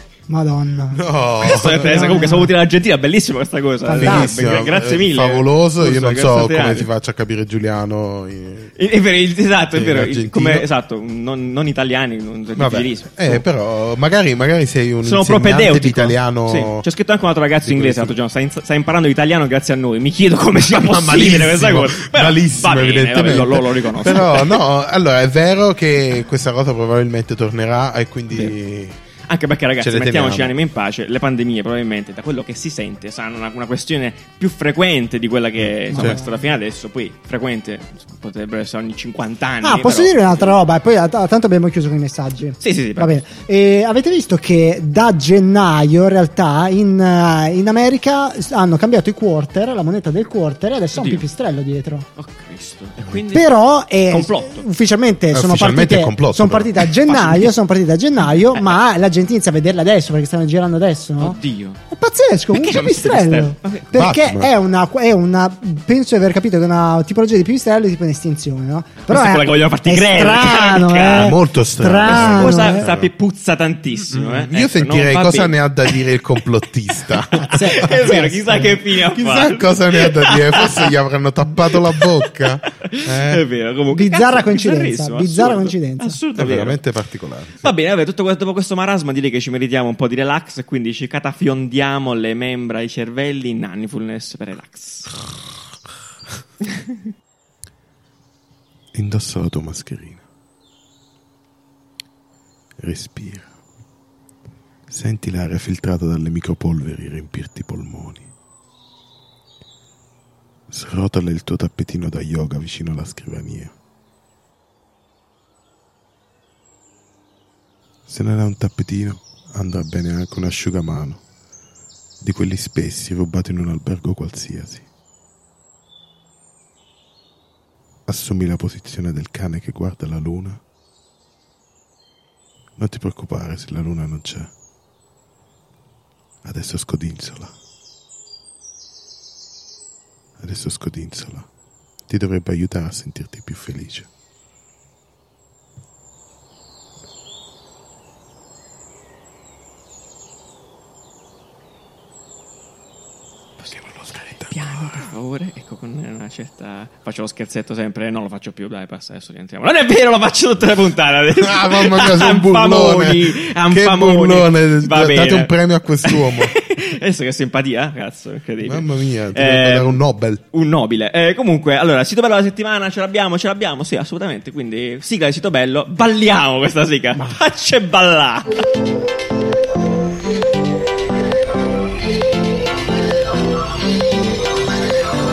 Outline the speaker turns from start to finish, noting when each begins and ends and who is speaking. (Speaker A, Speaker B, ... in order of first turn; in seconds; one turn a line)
Speaker A: 0.3-1.0
Speaker B: 0.9-2.1
Speaker C: 1.4-6.9
Speaker A: 1.8-2.5
Speaker A: 3.9-4.3
Speaker B: 4.0-8.7
Speaker C: 8.8-13.4
Speaker B: 9.7-10.7
Speaker B: 12.6-16.9
Speaker C: 15.0-24.6
Speaker B: 17.6-18.2
Speaker B: 20.7-29.0
Speaker C: 29.3-40.6
Speaker B: 29.8-30.6
Speaker B: 35.6-36.2
Speaker A: 35.9-36.4
Speaker A: 39.6-52.1
Speaker C: 42.6-43.2
Speaker C: 51.0-51.3
Speaker C: 52.2-54.6
Speaker A: 53.3-61.4
Speaker B: 55.3-56.9
Speaker C: 57.2-57.5
Speaker C: 61.2-61.8
Speaker A: 61.9-72.9
Speaker C: 62.5-63.9
Speaker B: 63.9-64.5
Speaker C: 69.1-71.3
Speaker B: 71.1-73.1
Speaker C: 72.0-76.0
Speaker B: 74.1-78.2
Speaker C: 77.4-80.9
Speaker A: 77.5-78.8
Speaker B: 79.1-83.4
Speaker C: 81.8-82.2
Speaker C: 82.7-86.8
Speaker A: 83.9-86.2
Speaker B: 86.4-87.7
Speaker C: 87.6-95.1
Speaker B: 98.9-100.2
Speaker B: 102.8-103.5
Speaker B: 104.9-108.3
Speaker B: 110.7-113.7
Speaker B: 118.1-121.2
Speaker B: 122.2-124.8
Speaker B: 128.1-130.6
Speaker B: 132.8-134.5
Speaker B: 136.4-137.5
Speaker B: 140.4-141.5
Speaker B: 142.1-144.1
Speaker C: 153.6-165.5
Speaker B: 153.9-155.1
Speaker B: 161.3-166.5
Speaker C: 166.1-170.0
Speaker B: 168.6-170.4
Speaker C: 170.5-178.6